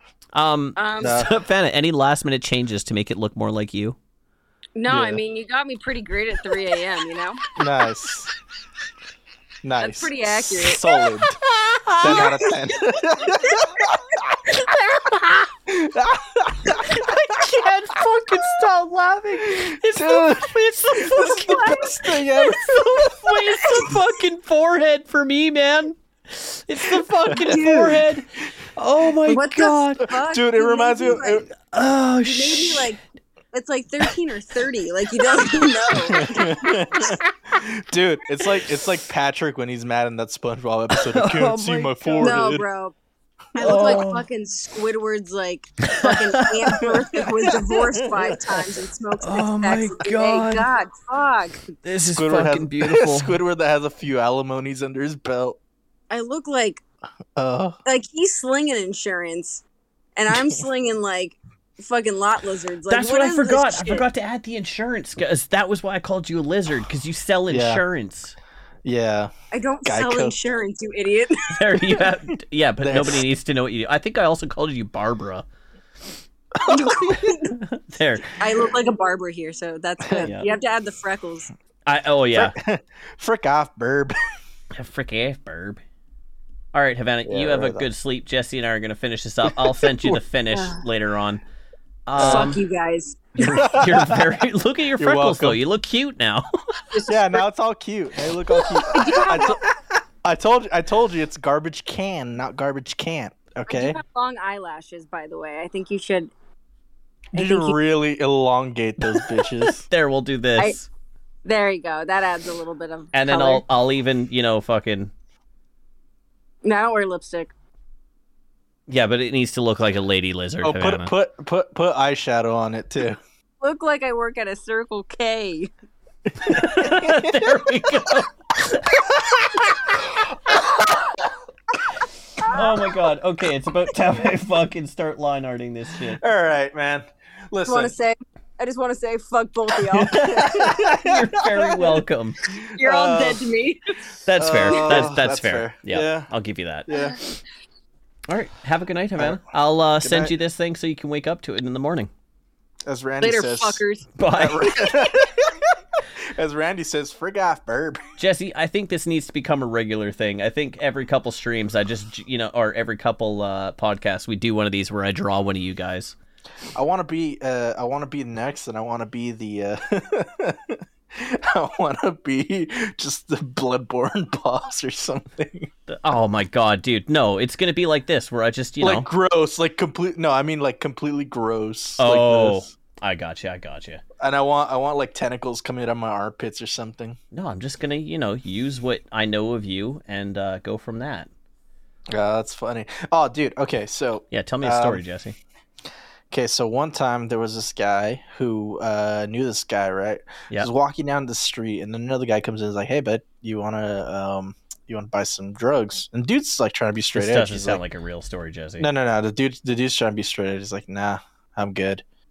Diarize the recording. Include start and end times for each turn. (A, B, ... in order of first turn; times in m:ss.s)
0:00.3-0:04.0 A
0:00.8-0:01.2 B
0:01.0-0:01.4 C
0:04.8-0:07.5 B
0:04.9-0:05.2 C
0:07.6-0:08.3 C
0:09.6-0:11.4 C
0:09.8-0:10.9 B
0:11.5-0:12.3 A
0:12.0-0:14.4 C
0:12.0-0:12.6 B
0:13.4-0:13.9 B
0:14.6-0:15.0 B
0:14.6-0:15.5 A
0:15.7-0:17.6 C
0:16.7-0:30.1 A
0:19.4-0:24.0 C
0:21.2-0:22.0 B
0:23.6-0:23.9 B
0:27.3-0:28.0 C
0:27.4-0:28.0 B
0:29.3-0:31.5 B
0:30.1-0:31.5 C
0:31.6-0:32.9 A
0:32.2-0:33.0 B
0:33.5-0:37.2 B
0:36.1-0:42.6 C
0:40.9-0:42.4 A
0:42.2-0:43.0 B
0:43.6-0:51.6 B
0:43.6-0:44.2 A
0:43.6-0:44.1 C
0:45.8-0:46.9 A
0:46.8-0:48.8 C
0:49.2-0:50.7 A
0:51.8-0:53.4 A
0:52.1-0:55.6 C
0:56.1-0:56.8 B
0:57.4-0:57.8 C
0:57.8-0:59.6 B
1:00.2-1:04.1 B
1:00.3-1:00.6 C
1:02.9-1:08.4 A
1:07.5-1:07.8 C
1:08.8-1:09.3 C
1:09.5-1:11.8 B
1:09.8-1:10.4 C
1:11.5-1:15.5 A
1:12.8-1:13.3 C
1:16.6-1:17.4 C
1:16.7-1:17.6 B
1:17.5-1:18.4 A
1:18.4-1:21.5 B
1:20.0-1:20.3 C
1:20.2-1:20.5 A
1:21.9-1:22.5 A
1:22.3-1:24.2 C
1:24.8-1:25.8 A
1:26.7-1:31.4 A
1:27.3-1:27.9 C
1:29.5-1:30.2 C
1:30.5-1:30.8 B
1:32.1-1:32.6 A
1:32.2-1:32.6 C
1:32.2-1:33.8 B
1:33.4-1:36.5 A
1:33.6-1:34.3 C
1:35.0-1:35.6 C
1:36.9-1:37.2 B
1:37.1-1:44.0 C
1:38.9-1:39.6 B
1:43.7-1:46.3 B
1:47.3-1:47.8 B
1:47.3-1:49.8 C
1:49.8-1:50.9 A
1:51.4-1:53.6 B
1:53.1-1:55.1 A
1:56.6-1:57.5 B
1:58.9-2:01.1 A
2:00.6-2:03.2 C
2:03.6-2:05.7 B
2:06.4-2:07.9 C
2:06.4-2:10.6 A
2:10.1-2:11.3 C
2:12.0-2:16.2 A
2:16.1-2:18.0 C
2:17.7-2:20.5 B
2:19.9-2:22.4 A
2:20.1-2:22.0 C
2:22.6-2:24.0 B
2:22.8-2:23.4 C
2:24.2-2:26.9 A
2:24.4-2:26.3 C
2:24.7-2:25.0 B
2:26.9-2:27.2 C
2:28.3-2:32.1 A
2:29.2-2:29.4 C
2:30.0-2:30.3 C
2:32.9-2:33.8 C
2:33.2-2:34.1 B
2:34.2-2:35.1 A
2:34.4-2:38.1 C
2:38.2-2:46.2 A
2:46.8-2:55.7 C
2:55.9-2:59.1 A
2:58.8-3:02.7 C
3:02.0-3:04.0 A
3:04.2-3:07.2 C
3:07.3-3:11.3 A
3:12.1-3:15.0 C
3:14.3-3:15.4 A
3:16.3-3:27.8 C
3:27.1-3:28.9 A
3:28.8-3:32.0 C